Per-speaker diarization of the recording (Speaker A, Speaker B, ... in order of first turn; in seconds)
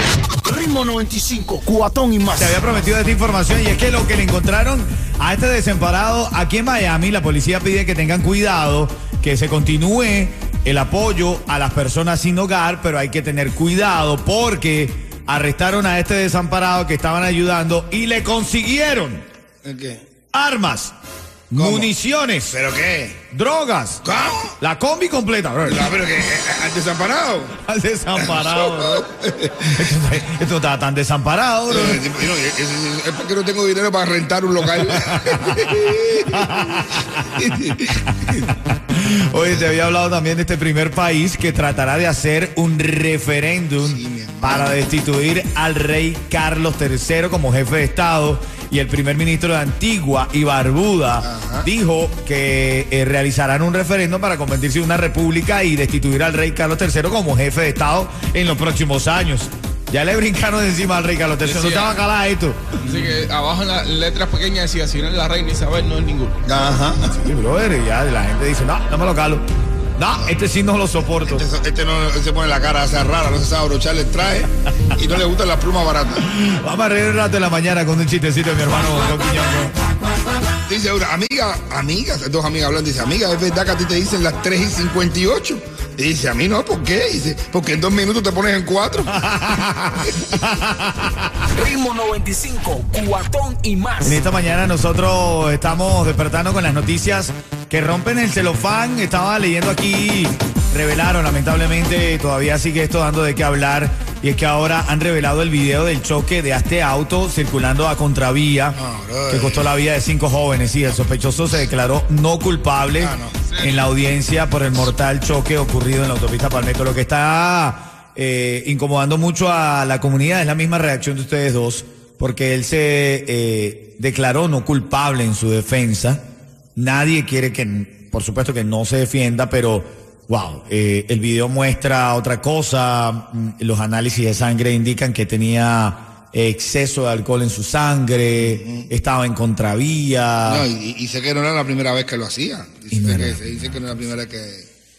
Speaker A: 0.2-2.6, 91.5-94.2
Speaker B: 2.4-19.2, 20.3-20.9, 21.5-22.5, 23.3-24.1, 24.6-25.9, 27.6-32.0, 35.0-35.6, 36.2-62.7, 67.1-69.4, 70.0-71.4, 76.2-79.7, 89.1-91.5, 94.0-108.8, 109.3-126.2, 126.8-140.6, 142.9-143.4
Speaker C: 19.6-20.0, 21.5-21.9, 22.5-23.2, 24.0-24.6, 25.6-27.5, 28.1-29.9, 31.7-36.6, 37.1-38.0, 43.8-44.8, 51.2-51.7, 66.4-67.2, 71.1-76.2, 80.7-89.1, 108.7-109.7, 113.0-113.4, 138.4-138.9, 140.4-144.7
Speaker D: 61.4-62.0, 62.8-66.4, 113.5-113.8